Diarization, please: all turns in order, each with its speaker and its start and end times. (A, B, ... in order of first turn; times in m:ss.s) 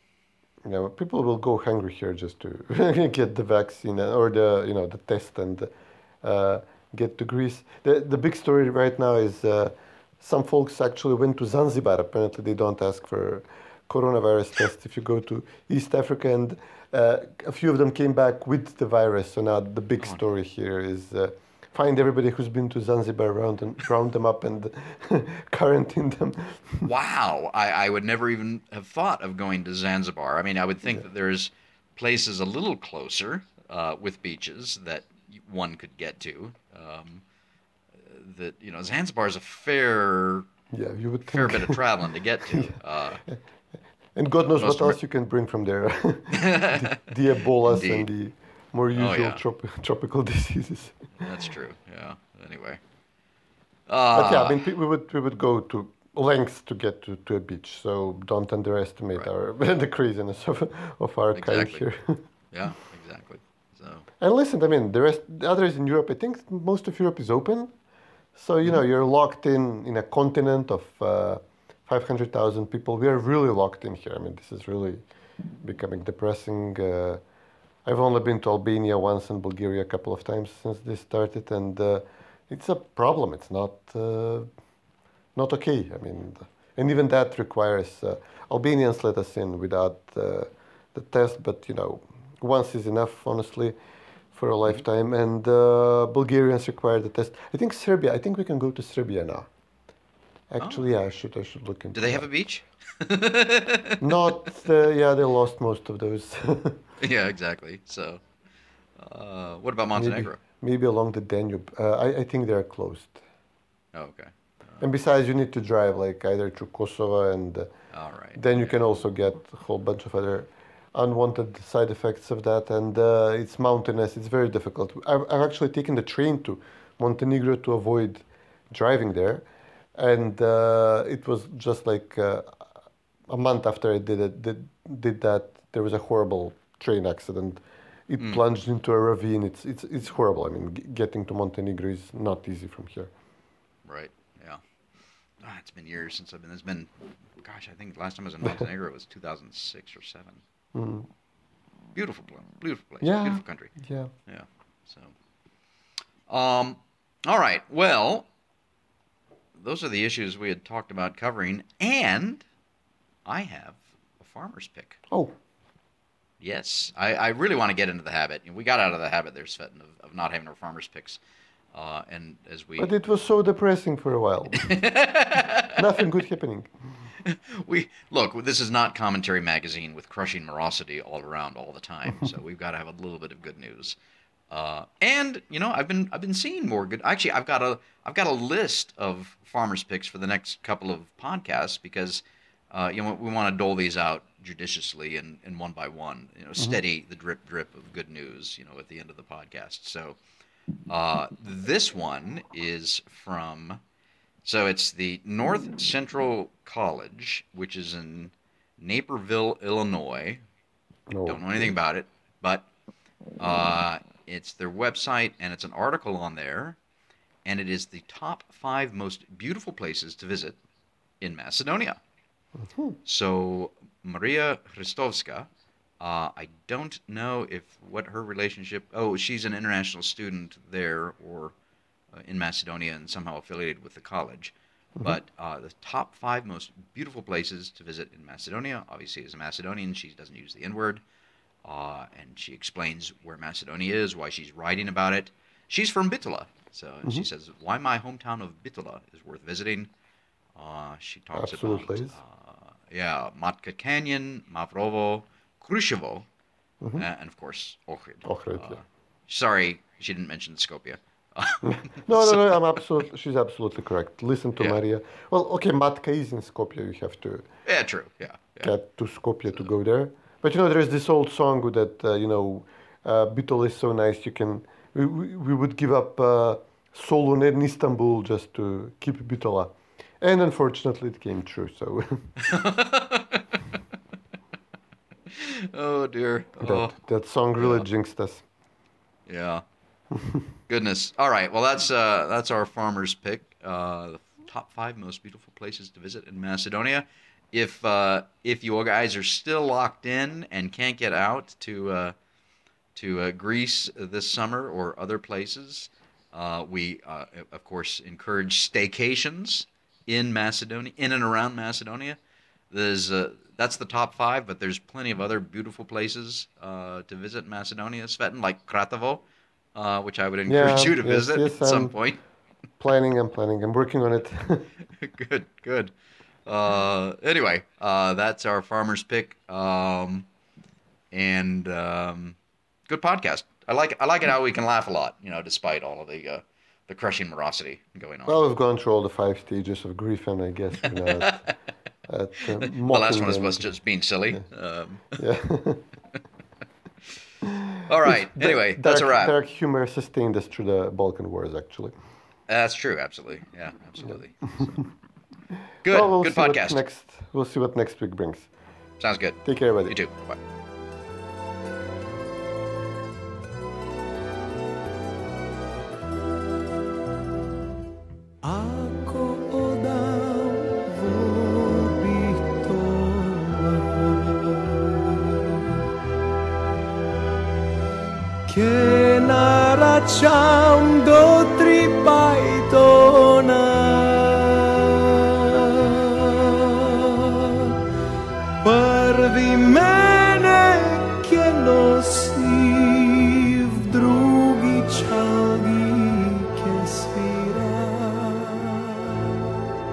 0:00.6-0:26.9 A
0:26.8-0:37.2 B
0:38.0-0:40.5 B
0:40.7-0:41.8 A
0:41.3-0:43.2 B
0:42.4-0:42.8 A
0:44.1-0:51.1 A
0:44.6-0:45.0 B
0:46.3-0:47.0 B
0:47.7-0:48.1 B
0:48.9-0:49.4 B
0:51.2-0:52.8 B
0:53.9-0:54.6 B
0:54.1-1:02.2 A
1:01.3-1:01.9 B
1:02.5-1:04.0 B
1:04.2-1:07.7 A
1:08.4-1:15.0 A
1:15.6-1:17.2 A
1:17.8-1:24.5 A
1:25.4-1:33.8 A
1:34.3-1:39.5 A
1:40.5-1:42.3 A
1:40.6-1:40.9 B
1:41.9-1:44.2 B
1:44.0-1:46.8 A
1:47.0-1:48.2 B
1:49.0-1:50.4 B
1:50.0-1:53.2 A
1:53.9-1:54.8 B
1:54.8-1:57.7 A
1:57.9-1:58.8 B
1:58.4-2:12.6 A
2:13.3-2:23.1 A
2:23.9-2:24.6 B
2:25.4-2:30.4 B
2:30.7-2:31.1 A
2:32.0-2:33.7 B
2:33.0-2:34.1 A
2:34.3-2:35.1 B
2:36.3-2:38.3 B
2:39.6-2:42.4 B
2:43.2-2:45.0 B
2:46.4-2:51.2 B
2:51.7-2:52.9 B
2:52.8-2:54.7 A
2:54.6-2:55.8 B
2:55.7-2:56.7 A
2:57.2-3:04.0 B
3:04.5-3:20.2 B
3:20.9-3:23.8 B
3:24.4-3:30.4 B
3:31.1-3:31.7 A
3:31.2-3:32.7 B
3:33.4-3:36.8 B
3:37.4-3:40.6 B
3:41.2-3:42.0 B
3:42.6-3:43.0 A
3:43.0-3:45.5 B
3:46.0-3:51.5 B
3:52.1-4:01.0 B
4:01.6-4:09.9 B
4:10.6-4:16.3 B
4:11.3-4:12.1 A
4:16.8-4:17.1 A
4:17.0-4:22.7 B
4:18.2-4:18.8 A
4:21.6-4:27.5 A
4:27.7-4:28.7 B
4:28.6-4:42.3 A
4:42.4-4:43.5 B
4:45.3-4:47.0 B
4:46.6-4:48.4 A
4:47.6-4:47.9 B
4:49.3-4:49.6 B
4:50.7-5:02.1 B
5:03.0-5:12.2 B
5:12.7-5:19.2 B
5:19.8-5:22.2 B
5:20.5-5:22.0 A
5:22.8-5:24.7 A
5:25.0-5:25.9 B
5:26.5-5:30.3 B
5:31.1-5:32.4 B
5:32.9-5:38.4 B
5:38.3-5:41.4 A
5:40.8-5:41.5 B
5:42.1-5:43.7 A
5:42.6-5:45.2 B
5:45.2-5:45.8 A
5:47.9-5:49.4 B
5:48.0-5:51.9 A
5:52.5-5:54.8 B
5:55.8-5:56.8 B
5:55.8-5:58.5 A
5:59.0-6:00.4 B
5:59.4-6:00.0 A
6:08.4-6:15.7 C
6:18.5-6:27.7 C
6:28.6-6:39.3 C